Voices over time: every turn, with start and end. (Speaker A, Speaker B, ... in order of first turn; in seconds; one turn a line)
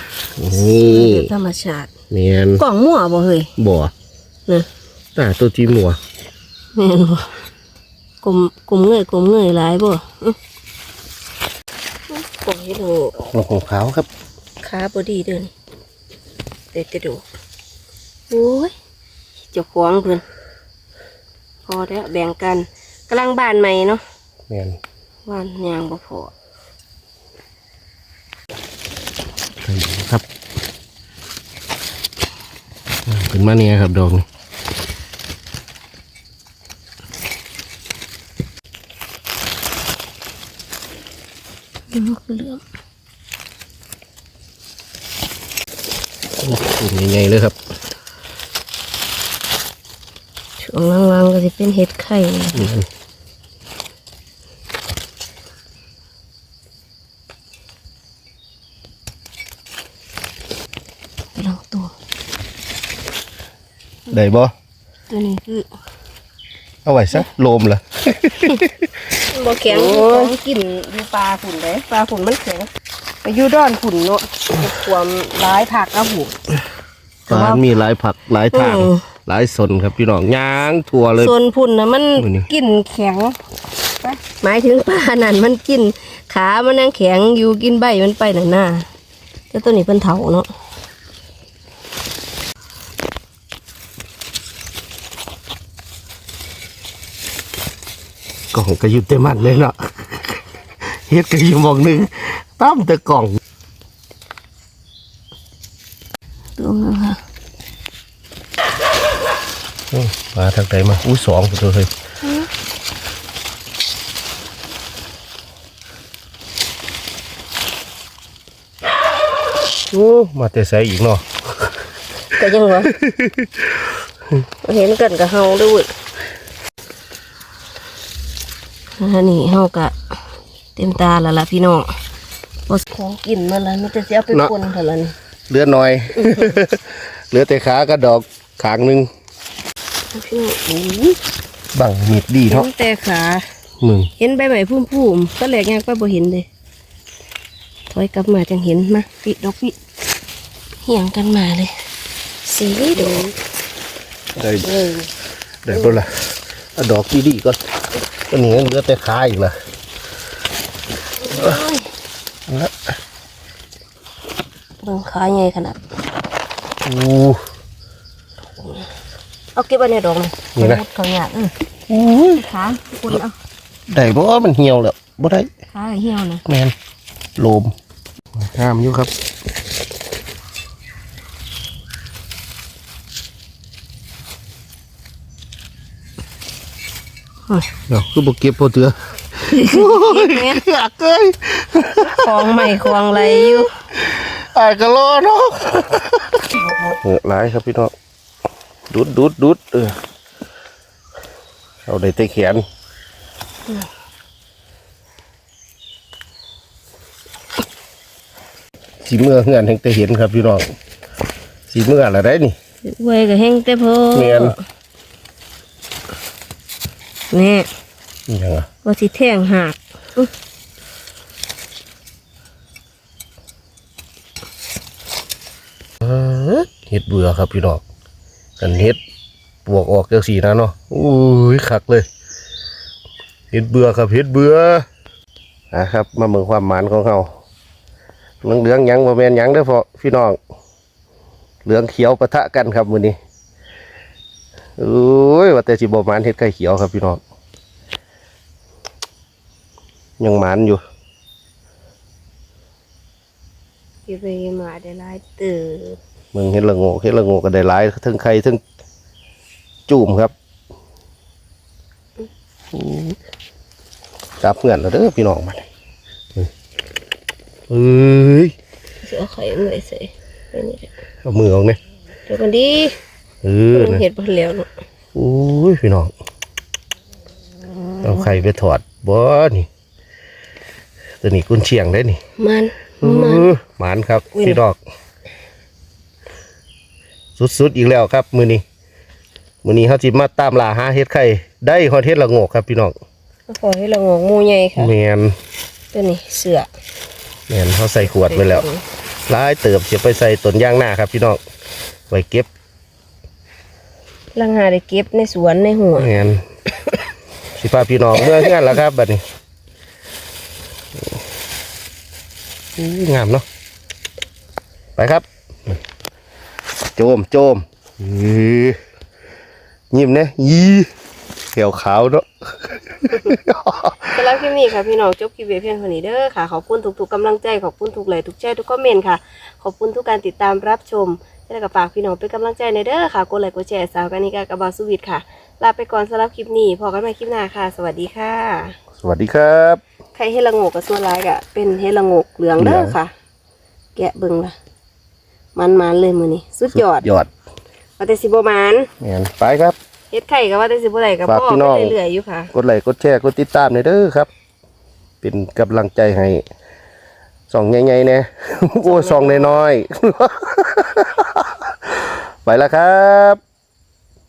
Speaker A: 0.4-1.3
Speaker B: 0.5-1.9
Speaker A: 2.1-2.6
Speaker B: 2.6-3.5
Speaker A: 3.6-3.9
Speaker A: 5.1-6.0
Speaker B: 6.8-7.3
Speaker B: 8.2-10.4
Speaker B: 12.1-13.2
Speaker A: 13.2-14.1
Speaker B: 14.6-15.5
Speaker B: 16.7-17.2
Speaker B: 18.3-18.7
Speaker B: 19.5-20.2
Speaker B: 21.6-24.0
Speaker A: 24.5-24.8
Speaker B: 25.2-26.3
Speaker A: 29.6-30.2
Speaker A: 33.0-34.3
Speaker B: 41.9-42.6
Speaker A: 46.4-47.5
Speaker B: 50.6-52.7
Speaker A: 52.5-52.9
Speaker B: 61.4-61.9
Speaker A: 64.1-64.5
Speaker B: 65.1-65.7
Speaker A: 66.8-68.9
Speaker B: 69.3-72.7
Speaker A: 69.7-70.4
Speaker B: 73.2-76.3
Speaker B: 77.3-77.6
Speaker A: 77.3-81.3
Speaker B: 78.5-79.0
Speaker B: 81.2-83.3
Speaker A: 82.2-82.5
Speaker B: 84.0-88.9
Speaker B: 89.5-90.5
Speaker A: 98.5-103.4
Speaker B: 106.6-107.2
Speaker A: 109.9-111.9
Speaker A: 119.9-121.7
Speaker B: 122.3-123.0
Speaker A: 122.9-123.7
Speaker B: 124.6-125.9
Speaker B: 129.0-129.9
Speaker B: 130.8-131.9
Speaker B: 132.7-135.1
Speaker A: 135.5-139.1
Speaker B: 136.2-136.5
Speaker B: 140.1-141.2
Speaker A: 141.7-142.7
Speaker B: 142.5-143.4
Speaker A: 143.8-144.1
Speaker B: 144.2-146.5
Speaker B: 147.9-149.8
Speaker B: 150.8-151.7
Speaker B: 152.4-153.3
Speaker A: 154.3-154.7
Speaker B: 154.6-155.1
Speaker A: 155.6-157.6
Speaker B: 155.7-156.0
Speaker A: 158.3-159.6
Speaker B: 161.2-161.9
Speaker A: 161.3-161.6
Speaker A: 162.5-162.8
Speaker B: 164.8-165.8
Speaker A: 166.8-167.4
Speaker B: 168.6-168.9
Speaker B: 169.6-171.5
Speaker A: 170.6-170.8
Speaker A: 171.9-172.4
Speaker B: 172.3-173.3
Speaker A: 173.9-175.5
Speaker B: 175.7-176.4
Speaker A: 176.5-176.7
Speaker A: 177.4-177.7
Speaker A: 178.3-179.1
Speaker A: 187.9-197.9
Speaker B: 189.5-190.6
Speaker B: 192.0-193.7
Speaker A: 198.9-200.0
Speaker A: 201.8-202.6
Speaker A: 209.0-210.8
Speaker A: 211.7-212.6
Speaker B: 212.8-214.6
Speaker A: 214.1-214.6
Speaker B: 217.3-217.7
Speaker A: 218.3-218.7
Speaker B: 218.8-220.3
Speaker A: 226.0-227.8
Speaker A: 228.6-229.0
Speaker A: 229.7-232.1
Speaker A: 233.5-234.8
Speaker A: 235.7-237.3
Speaker A: 238.4-240.4
Speaker A: 241.6-243.2
Speaker A: 244.8-247.2
Speaker A: 250.2-250.8
Speaker B: 254.1-256.0
Speaker A: 256.3-258.6
Speaker A: 259.9-260.3
Speaker A: 262.7-263.1
Speaker A: 264.4-265.7
Speaker A: 267.7-268.5
Speaker B: 269.0-270.9
Speaker A: 271.2-271.8
Speaker B: 272.3-273.0
Speaker A: 273.4-274.0
Speaker B: 273.7-274.7
Speaker A: 275.1-276.1
Speaker A: 278.0-279.7
Speaker A: 281.2-282.2
Speaker B: 282.4-283.5
Speaker A: 283.0-284.8
Speaker B: 284.3-284.6
Speaker A: 287.4-288.6
Speaker A: 289.6-293.0
Speaker B: 293.5-294.9
Speaker A: 294.8-295.4
Speaker B: 295.9-296.7
Speaker A: 297.5-298.6
Speaker B: 298.0-298.8
Speaker A: 299.3-301.4
Speaker A: 302.1-302.5
Speaker B: 304.3-306.1
Speaker A: 305.9-306.4
Speaker A: 307.6-309.2
Speaker A: 312.8-313.4
Speaker A: 314.9-315.8
Speaker A: 316.9-318.8
Speaker A: 319.9-320.9
Speaker A: 321.5-324.3
Speaker B: 324.1-338.8
Speaker A: 339.0-339.8
Speaker B: 340.1-343.1
Speaker A: 342.6-343.0
Speaker B: 343.9-344.6
Speaker B: 345.6-347.1
Speaker A: 346.7-347.3
Speaker B: 348.0-348.9
Speaker A: 349.0-349.8
Speaker B: 350.1-352.5
Speaker A: 351.2-352.0
Speaker A: 352.5-354.3
Speaker A: 355.2-356.4
Speaker A: 357.5-363.4
Speaker B: 358.8-359.6